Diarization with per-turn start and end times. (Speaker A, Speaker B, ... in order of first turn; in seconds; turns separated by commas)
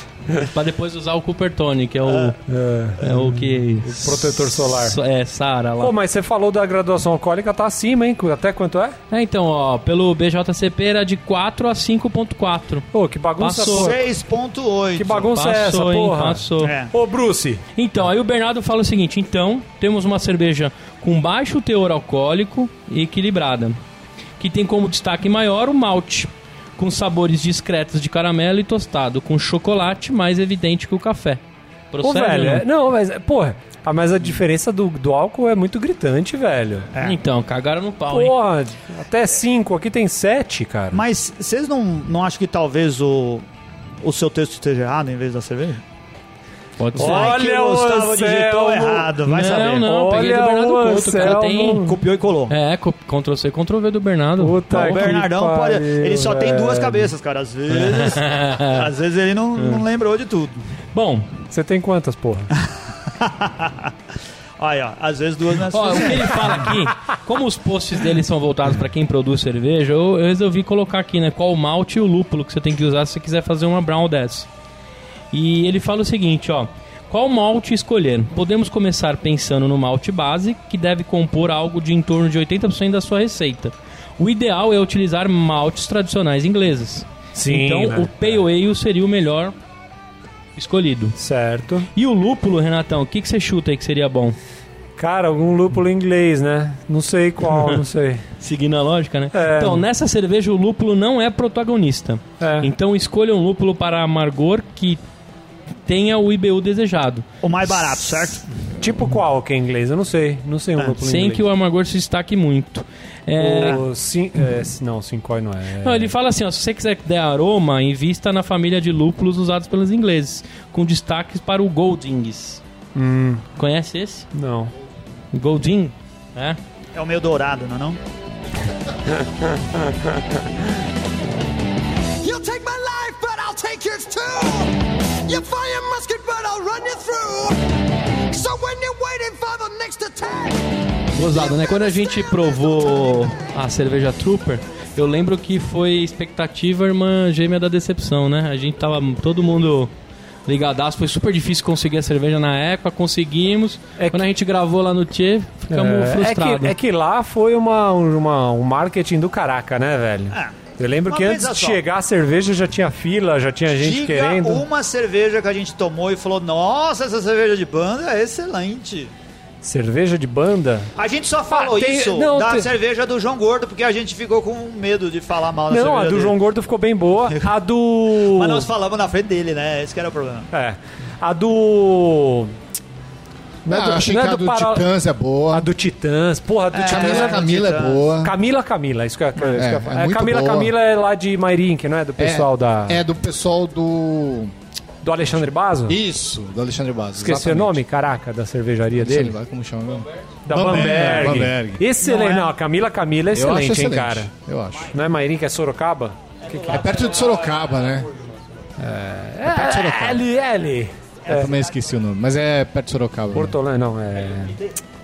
Speaker A: 0.3-2.4, Speaker B: 2.1-2.4, Speaker C: 2.5-5.0, Speaker A: 3.0-6.0, Speaker C: 5.8-9.0, Speaker A: 9.1-12.9, Speaker C: 12.9-14.0, Speaker A: 13.4-13.9, Speaker B: 13.7-15.3, Speaker C: 14.9-17.6, Speaker A: 15.3-16.8, Speaker B: 16.6-16.9, Speaker A: 17.8-23.8, Speaker A: 24.4-31.4, Speaker A: 31.9-32.6, Speaker C: 32.0-36.9, Speaker A: 37.0-38.3, Speaker C: 38.1-41.0, Speaker B: 40.9-43.5, Speaker B: 44.0-45.8, Speaker A: 46.8-47.4, Speaker B: 47.0-49.9, Speaker C: 47.0-52.0, Speaker A: 49.3-51.9, Speaker B: 51.8-52.5, Speaker A: 52.5-55.2, Speaker C: 54.4-57.1, Speaker B: 54.7-60.6, Speaker A: 57.7-58.9, Speaker A: 59.6-59.8, Speaker A: 60.9-61.4, Speaker C: 61.5-62.5, Speaker B: 63.1-63.9, Speaker B: 64.6-66.7, Speaker A: 65.7-74.5, Speaker A: 75.3-89.5, Speaker C: 87.3-88.4, Speaker A: 90.6-91.2, Speaker C: 91.2-91.9, Speaker A: 92.0-94.4, Speaker C: 95.0-98.2, Speaker A: 98.4-105.0, Speaker C: 99.3-99.8, Speaker C: 102.4-102.7, Speaker A: 105.9-107.3, Speaker B: 107.4-108.5, Speaker C: 108.8-111.4, Speaker A: 111.0-113.8, Speaker C: 113.4-116.1, Speaker A: 115.8-122.6, Speaker C: 123.0-123.5, Speaker A: 123.6-124.3, Speaker C: 124.3-124.7, Speaker A: 125.3-126.6, Speaker B: 126.9-128.0, Speaker C: 129.2-129.9, Speaker D: 132.2-143.3, Speaker A: 141.1-149.9, Speaker A: 150.5-156.8, Speaker C: 154.0-154.3, Speaker C: 155.7-164.6, Speaker B: 160.3-161.8, Speaker B: 163.7-169.1, Speaker C: 169.6-170.9, Speaker B: 171.0-176.3, Speaker C: 171.5-172.7, Speaker C: 175.7-178.7, Speaker B: 178.2-180.5, Speaker C: 180.5-182.5, Speaker C: 183.7-184.9, Speaker E: 183.7-185.7, Speaker C: 185.5-187.6, Speaker B: 186.7-188.0, Speaker E: 186.8-188.3, Speaker C: 188.2-193.0, Speaker E: 189.6-190.7, Speaker E: 192.2-194.5, Speaker C: 195.0-196.0, Speaker E: 195.9-197.8, Speaker C: 197.2-199.4, Speaker E: 198.9-201.8, Speaker C: 200.5-204.3, Speaker B: 200.7-201.4, Speaker B: 202.0-202.5, Speaker E: 203.3-204.9, Speaker C: 204.9-206.9, Speaker E: 206.7-208.1, Speaker C: 208.8-211.5, Speaker E: 209.5-210.2, Speaker B: 211.3-211.6, Speaker E: 211.3-213.6, Speaker C: 213.3-214.6